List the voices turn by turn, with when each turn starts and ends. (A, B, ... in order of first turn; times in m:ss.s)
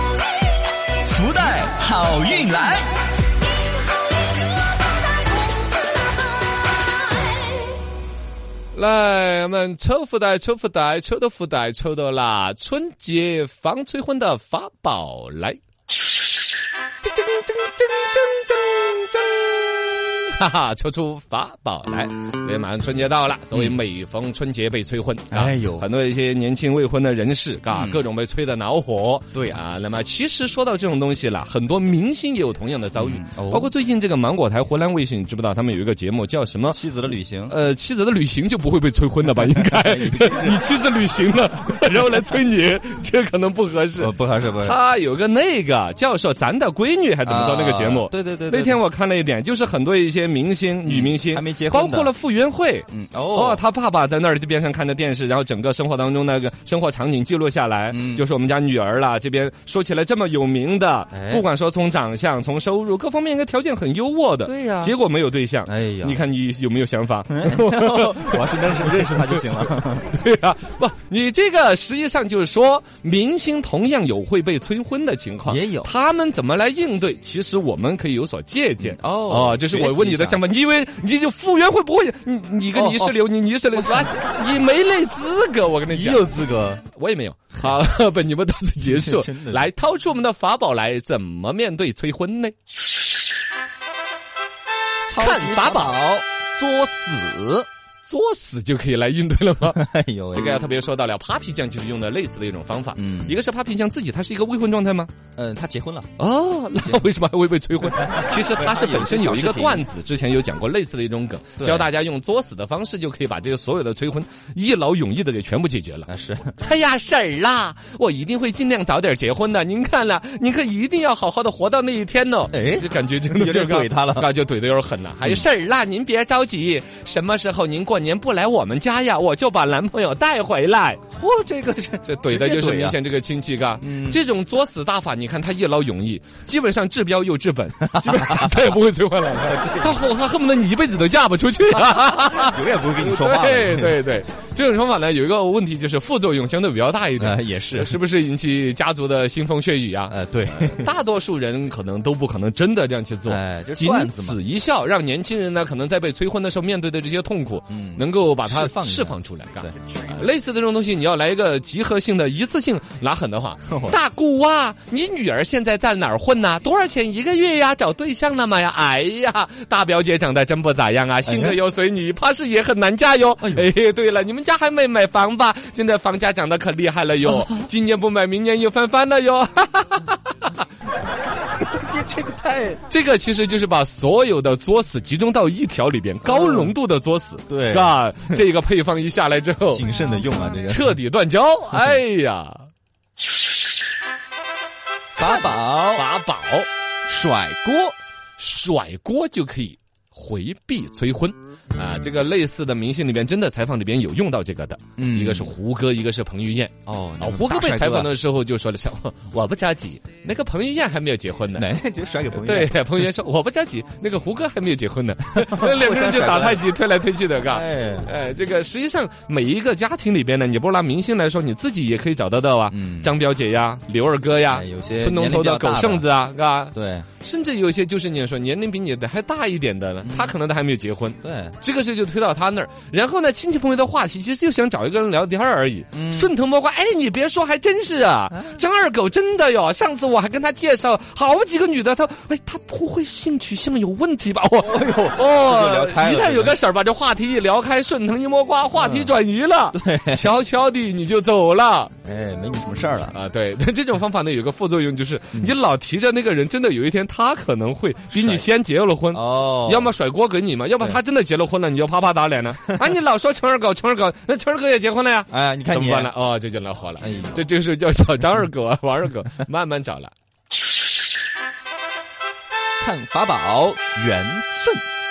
0:01.1-0:02.9 A
0:08.7-0:15.6 B
0:17.0-0:36.8 B
0:25.3-0:25.9 A
0:27.7-0:28.0 A
0:29.3-0:29.6 A
0:33.0-0:33.7 A
0:36.7-0:37.6 A
0:37.5-1:26.3 B
0:39.4-0:40.6 A
0:44.0-0:44.8 A
0:47.2-0:48.8 A
0:50.8-0:52.1 A
0:52.9-0:53.6 A
0:57.9-0:58.2 A
1:01.1-1:01.4 A
1:04.4-1:05.0 A
1:05.7-1:06.2 A
1:07.3-1:10.1 A
1:15.5-1:15.9 A
1:18.8-1:20.4 A
1:22.7-1:23.2 A
1:23.7-1:24.1 A
1:25.9-1:26.8 A
1:26.9-1:32.6 B
1:28.8-1:29.7 A
1:35.1-1:37.7 A
1:35.2-1:36.0 B
1:38.0-1:39.8 B
1:39.7-1:40.6 A
1:40.3-1:45.1 B
1:43.0-1:43.4 A
1:45.4-1:46.1 A
1:46.2-2:11.0 B
1:48.0-1:49.9 A
1:51.6-1:51.9 A
1:56.1-1:56.5 A
2:02.5-2:04.3 A
2:11.1-2:13.0 A
2:12.0-3:00.6 B
2:13.8-2:14.2 A
2:18.0-2:18.5 A
2:19.4-2:20.0 A
2:22.2-2:24.0 A
2:27.2-2:28.0 A
2:30.1-2:30.9 A
2:33.3-2:34.4 A
2:37.7-2:39.8 A
2:43.7-2:44.0 A
2:51.2-2:51.6 A
2:53.4-2:53.7 A
3:01.6-3:02.8 A
3:02.9-3:09.8 B
3:06.2-3:06.7 A
3:07.5-3:08.4 A
3:09.7-3:11.0 A
3:10.7-3:12.7 B
3:15.2-3:16.1 A
3:15.2-3:16.7 B
3:17.1-3:18.0 A
3:18.4-3:31.7 B
3:25.0-3:25.5 A
3:26.9-3:28.1 A
3:31.6-3:32.8 A
3:32.3-4:11.9 B
3:35.4-3:36.6 A
3:37.5-3:38.1 A
3:42.7-3:43.1 A
3:44.5-3:46.0 A
3:46.7-3:47.1 A
3:50.0-3:50.3 A
3:51.2-3:51.6 A
3:55.9-3:56.3 A
4:04.6-4:06.6 A
4:08.8-4:09.1 A
4:09.7-4:10.3 A
4:12.0-4:13.2 A
4:13.1-4:30.1 B
4:18.1-4:18.4 A
4:19.1-4:19.9 A
4:25.3-4:26.1 A
4:27.0-4:27.4 A
4:32.8-4:34.8 A